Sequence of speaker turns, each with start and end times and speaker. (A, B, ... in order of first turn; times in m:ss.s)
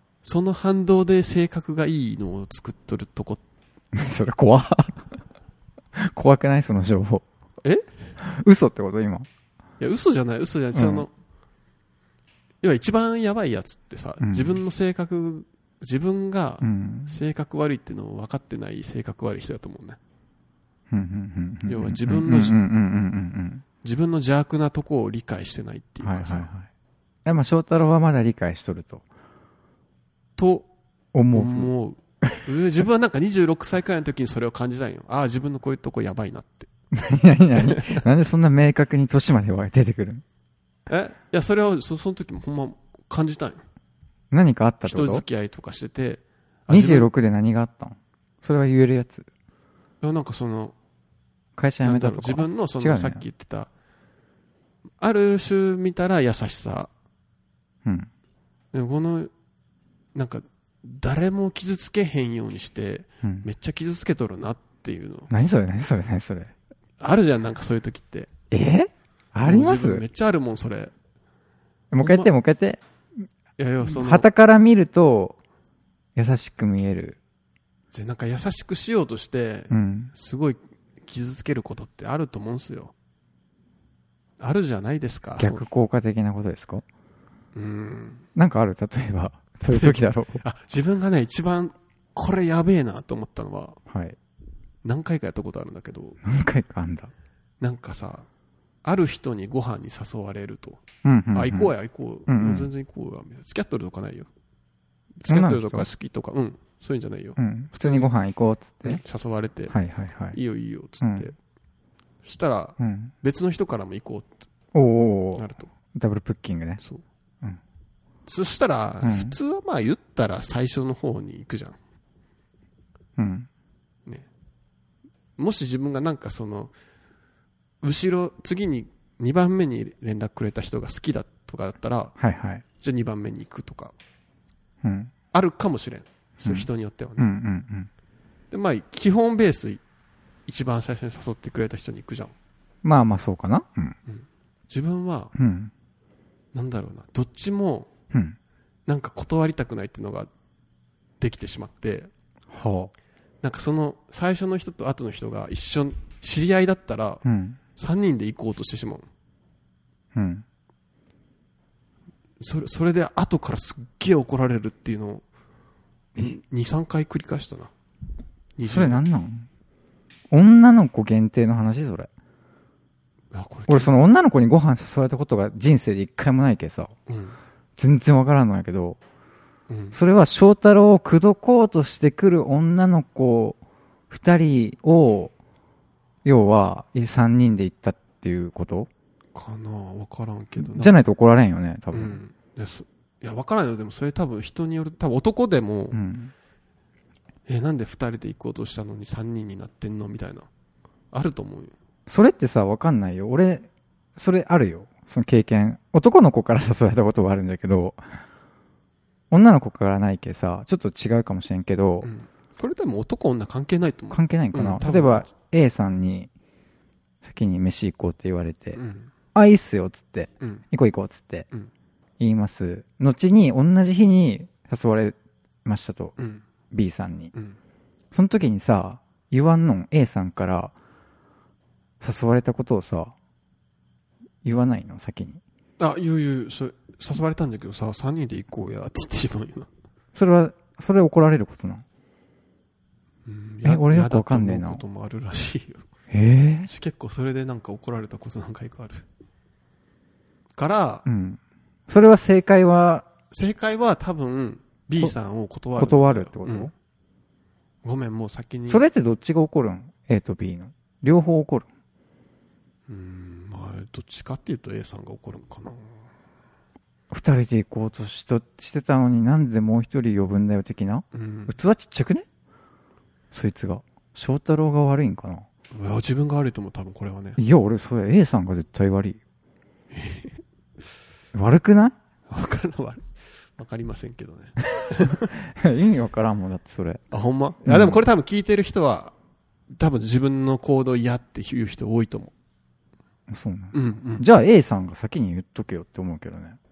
0:00.2-0:03.4 A
0:03.9-0:05.1 B
0:05.9-0:07.2 B
0:07.6-0:07.9 A
0:08.2-0:09.3 B
0:09.8-0:11.1 A
0:10.7-0:11.1 B
0:12.6-0:20.0 A
0:14.2-0:14.6 B
0:16.6-0:17.2 B
0:20.9-0:23.6 B
0:21.7-0:22.6 A
0:23.8-0:26.5 A
0:26.0-0:26.7 B
0:27.2-0:29.0 B
0:30.4-0:30.7 A
0:31.1-0:31.7 B
0:31.3-0:36.7 A
0:36.9-0:40.2 B
0:37.6-0:38.0 A
0:40.9-0:43.6 A
0:44.3-0:45.2 B
0:44.8-0:47.1 A
0:46.7-0:49.3 B
0:50.0-0:50.7 A
0:51.6-0:53.2 B
0:51.8-0:53.7 A
0:55.0-0:56.9 A
0:58.7-0:59.3 A
1:00.1-1:05.3 A
1:05.3-1:06.5 B
1:07.0-1:08.3 A
1:08.5-1:10.0 B
1:09.4-1:10.9 A
1:11.9-1:13.2 B
1:12.0-1:12.3 A
1:13.6-1:14.3 A
1:13.8-1:15.4 B
1:16.2-1:17.2 B
1:17.9-1:22.9 A
1:19.7-1:20.1 B
1:24.4-1:25.6 A
1:25.4-1:26.8 B
1:27.5-1:28.2 A
1:28.3-1:30.4 B
1:29.6-1:33.8 A
1:33.9-1:34.2 B
1:34.8-1:36.2 A
1:36.2-1:37.1 B
1:37.6-1:38.3 A
1:38.8-1:44.3 A
1:41.0-1:41.7 B
1:42.3-1:42.7 B
1:45.2-1:48.1 A
1:45.3-1:45.9 B
1:47.4-1:49.0 B
1:48.8-1:49.7 A
1:49.7-1:50.4 B
1:50.3-1:51.4 A
1:51.0-1:51.3 B
1:52.2-1:54.4 A
1:52.8-1:53.1 B
1:54.7-1:56.8 B
1:55.4-1:55.7 A
1:58.2-2:01.8 A
1:59.0-1:59.4 B
2:03.2-2:03.5 B
2:05.4-2:06.7 A
2:07.8-2:12.1 A
2:12.2-2:12.6 B
2:12.8-2:13.9 A
2:14.8-2:15.1 B
2:15.3-2:17.3 A
2:16.4-2:17.9 B
2:18.5-2:19.8 A
2:20.5-2:22.3 A
2:22.8-2:24.0 B
2:24.1-2:25.3 A
2:25.3-2:25.7 B
2:26.5-2:27.9 A
2:28.1-2:28.4 B
2:28.9-2:30.3 A
2:31.2-2:32.1 A
2:32.5-2:32.9 B
2:33.4-2:37.2 A
2:37.2-2:37.6 B
2:37.8-2:39.1 A
2:40.1-2:40.4 B
2:42.4-2:45.2 A
2:46.1-2:47.7 A
2:48.6-2:49.0 A
2:48.6-2:49.5 B
2:50.3-2:52.1 B
2:53.3-2:53.9 A
2:53.7-2:56.9 B
2:57.1-2:57.4 A
2:57.8-2:59.0 B
2:59.7-3:00.0 A
2:59.9-3:03.6 B
3:04.1-3:05.3 B
3:06.2-3:08.9 B
3:09.3-3:10.9 A
3:10.6-3:12.2 B
3:11.9-3:16.0 A
3:15.9-3:16.3 B
3:17.5-3:20.5 A
3:21.1-3:21.7 A
3:22.1-3:28.2 B
3:29.3-3:32.1 B
3:32.0-3:35.3 A
3:34.1-3:36.3 B
3:37.2-3:38.8 B
3:38.7-3:39.1 A
3:39.3-3:41.5 B
3:42.2-3:46.2 B
3:46.2-3:46.4 A
3:46.7-3:47.3 B
3:48.1-3:50.7 B
3:52.0-3:53.1 B
3:54.4-3:55.4 B
3:55.8-3:59.7 A
4:00.1-4:01.8 B
4:03.2-4:05.8 A
4:03.6-4:04.8 B
4:06.1-4:06.7 B
4:06.6-4:09.0 A
4:10.6-4:11.0 A
4:11.0-4:13.1 B
4:13.3-4:16.7 A
4:15.8-4:16.7 B
4:17.8-4:18.8 A
4:18.7-4:21.7 B
4:22.9-4:25.9 A
4:27.1-4:32.2 B
4:31.1-4:31.5 A
4:33.3-4:35.5 B
4:35.7-4:37.4 A
4:37.4-4:39.2 B
4:39.9-4:40.4 A
4:41.3-4:42.0 B
4:42.3-4:45.3 A
4:45.4-4:47.0 B
4:47.1-4:49.1 A
4:47.6-4:48.0 B
4:49.7-4:52.3 A
4:53.3-4:56.6 B
4:53.7-4:54.2 A